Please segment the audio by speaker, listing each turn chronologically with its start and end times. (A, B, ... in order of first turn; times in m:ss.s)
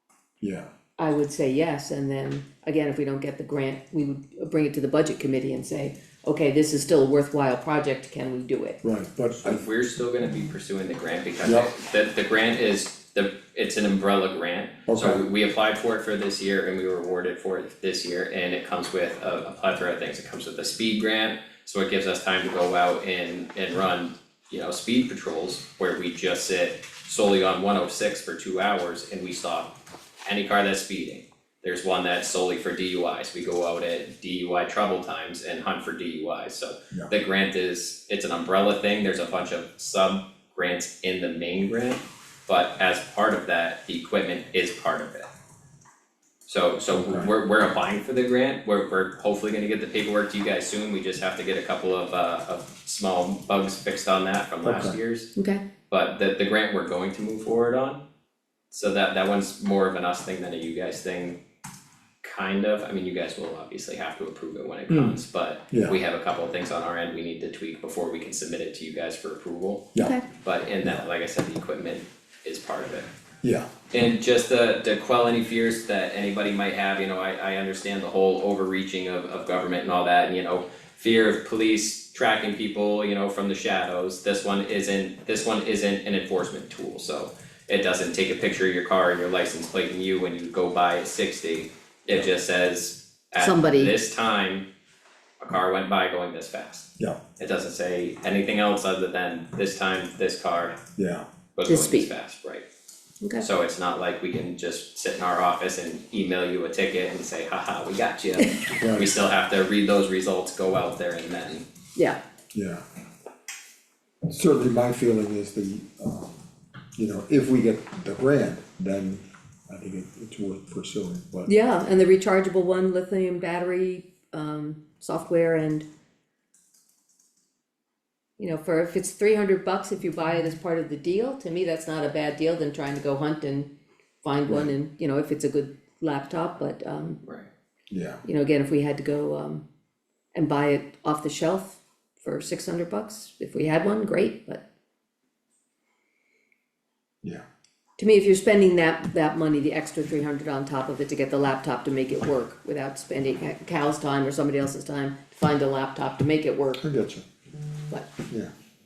0:00.4-0:00.7 A
0:01.0-0:08.8 B
0:08.8-0:09.6 A
0:09.4-0:45.3 C
0:11.4-0:11.7 A
0:14.9-0:15.2 A
0:46.5-0:55.3 C
0:47.0-0:47.3 A
0:54.6-0:55.0 A
0:55.4-0:55.6 B
0:55.9-0:58.0 C
0:58.7-1:01.4 C
1:02.2-1:09.9 C
1:04.9-1:05.2 A
1:10.0-1:10.2 B
1:10.4-1:13.1 C
1:13.4-1:13.7 A
1:13.9-1:34.7 C
1:33.4-1:33.9 B
1:35.4-1:36.9 C
1:37.4-1:40.8 C
1:41.0-1:41.2 A
1:41.6-1:42.7 C
1:41.7-1:42.1 B
1:43.4-1:51.6 C
1:48.8-1:49.1 A
1:52.5-1:52.8 A
1:54.2-1:56.4 A
1:57.0-2:01.5 A
2:01.5-2:05.8 B
2:08.4-2:13.7 B
2:14.2-2:17.2 B
2:17.9-2:18.2 A
2:18.2-2:19.6 B
2:20.3-2:24.6 B
2:28.0-2:36.8 B
2:36.8-2:37.2 A